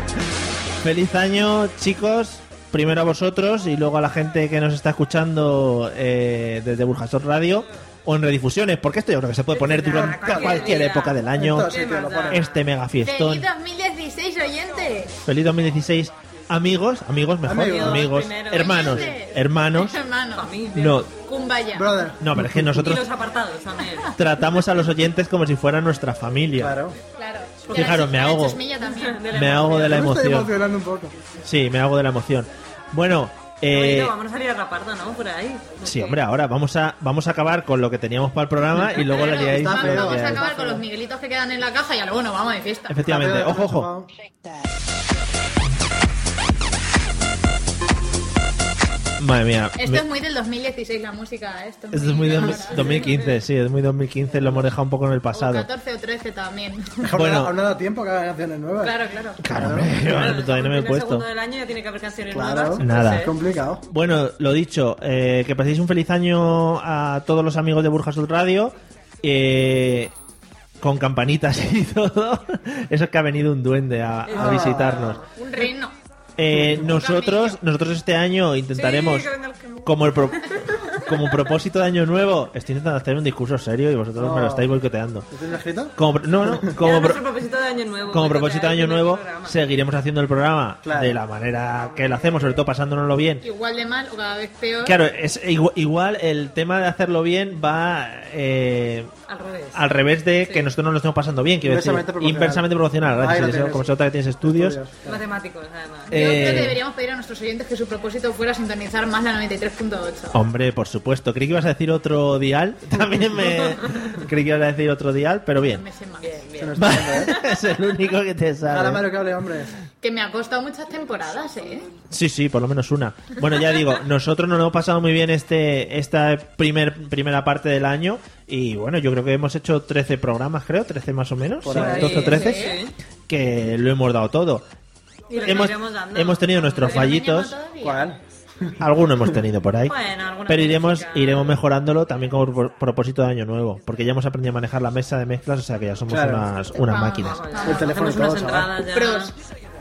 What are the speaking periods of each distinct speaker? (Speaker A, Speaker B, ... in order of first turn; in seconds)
Speaker A: 0.8-11.7, 12.3-13.5, 15.3-20.0, 20.7-21.1, 22.2-23.1, 24.2-26.8, 27.7-28.6, 29.3-30.5, 31.4-34.1, 35.8-40.5, 42.9-43.9, 49.2-50.0, 51.9-55.7, 57.1-57.5, 59.4-61.3, 62.8-63.3, 63.9-70.1, 70.8-75.2, 76.4-79.3, 79.8-85.3, 86.0-87.3, 88.1-93.4, 94.8-99.1, 99.7-104.8, 106.1-106.8, 110.3-115.8, 116.8-119.0, 122.1-132.8, 133.3-134.7, 135.3-137.6, 138.8-140.0, 140.5-147.4
Speaker B: 9.5-12.6, 17.5-19.0, 20.3-21.0, 22.7-24.1, 27.7-28.1, 28.8-30.1, 33.7-36.2, 52.8-53.4, 59.9-63.3, 74.3-75.3, 78.7-81.3, 86.8-89.6, 91.8-92.6, 99.3-99.8, 105.0-106.2, 116.2-117.6, 131.7-132.9, 135.3-137.2, 139.9-141.6, 147.2-149.3
Speaker C: 9.9-10.8, 11.3-12.4, 17.4-18.2, 21.8-22.8, 26.6-27.0, 29.9-31.1, 39.4-40.8, 43.0-44.1, 57.0-59.0, 59.5-60.0, 62.3-63.8, 74.3-75.2, 84.2-84.7, 85.3-86.7, 90.8-91.2, 101.6-103.9, 104.4-105.2, 116.6-117.3, 118.7-119.7, 131.6-132.5, 137.8-138.7, 146.1-146.4, 147.6-148.7
Speaker D: 13.0-15.1, 18.5-20.5, 21.2-22.0, 27.2-29.2, 39.1-43.0, 49.8-53.0, 55.3-57.0, 58.8-59.4, 75.3-75.9, 76.9-77.5, 93.4-95.0, 106.1-110.4, 115.6-116.4, 120.0-121.9, 132.2-132.8, 136.8-138.2, 146.7-147.9, 148.9-149.3